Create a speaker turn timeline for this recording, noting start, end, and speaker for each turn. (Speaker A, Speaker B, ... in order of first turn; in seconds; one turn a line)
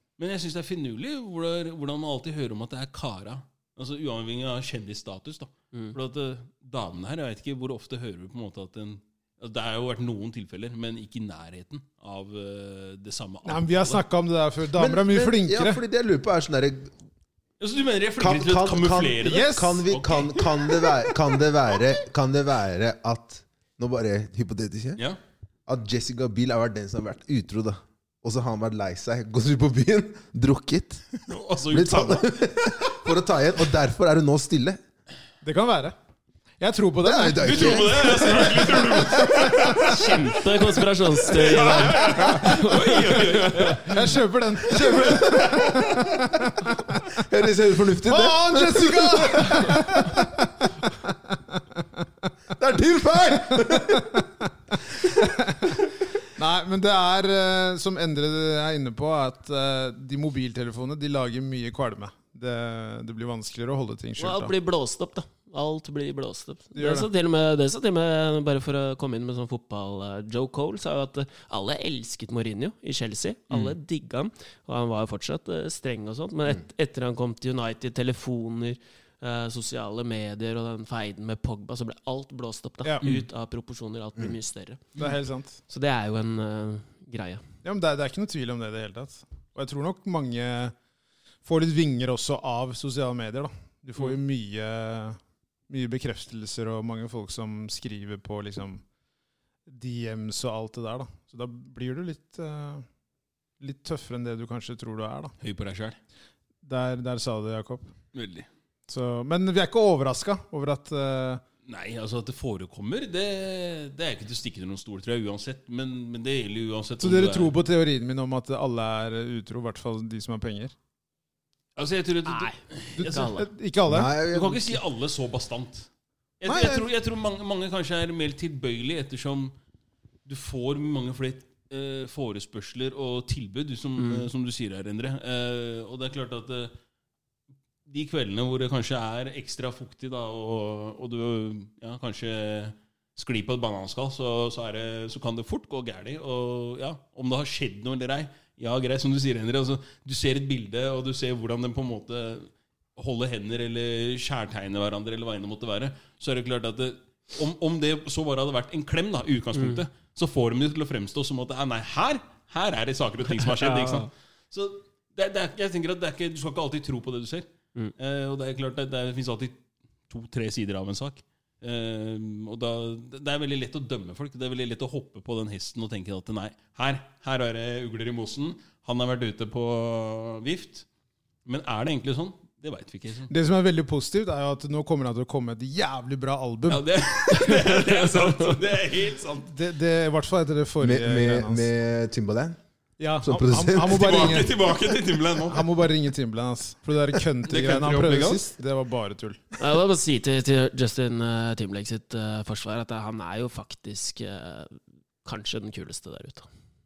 Speaker A: 0.2-14.0
Speaker B: 13.4-15.8
Speaker C: 14.8-16.9
Speaker A: 17.6-21.0
Speaker C: 18.2-25.0
Speaker B: 19.2-19.8
Speaker C: 25.7-31.1
Speaker A: 31.2-32.8
Speaker C: 31.7-34.8
Speaker B: 35.4-36.0
Speaker B: 36.6-38.3
Speaker C: 37.0-39.7
Speaker A: 37.4-46.0
Speaker D: 39.7-43.8
Speaker B: 43.7-47.1
Speaker C: 47.1-50.2
Speaker B: 48.1-52.1
Speaker C: 52.5-54.2
Speaker B: 53.7-54.2
Speaker B: 55.2-55.8
Speaker B: 56.4-64.5
Speaker D: 64.2-84.8
Speaker B: 66.8-67.1
Speaker B: 85.0-85.6
Speaker D: 85.7-87.4
Speaker B: 87.6-90.8
Speaker B: 91.4-95.2
Speaker B: 95.7-98.8
Speaker B: 99.7-102.8
Speaker B: 103.6-105.3
Speaker A: 105.4-106.0
Speaker B: 106.6-107.9
Speaker A: 108.1-108.5
Speaker B: 108.9-111.4
Speaker A: 111.7-117.6
Speaker B: 117.0-120.8
Speaker A: 121.8-123.3
Speaker D: 122.3-123.5
Speaker B: 123.0-124.1
Speaker C: 123.9-124.8
Speaker A: 124.3-125.9
Speaker A: 126.4-129.6
Speaker B: 126.5-126.9
Speaker A: 130.2-136.7
Speaker D: 134.0-134.3
Speaker A: 137.9-180.9
Speaker D: 159.6-159.8
Speaker D: 163.4-164.1
Speaker A: 181.5-183.3
Speaker B: 183.3-186.8
Speaker A: 186.7-189.6
Speaker D: 187.3-188.6
Speaker B: 189.5-191.7
Speaker C: 190.8-192.6
Speaker B: 193.0-194.6
Speaker C: 193.2-194.4
Speaker A: 193.8-195.7
Speaker B: 195.5-199.4
Speaker A: 197.4-198.4
Speaker D: 199.6-206.5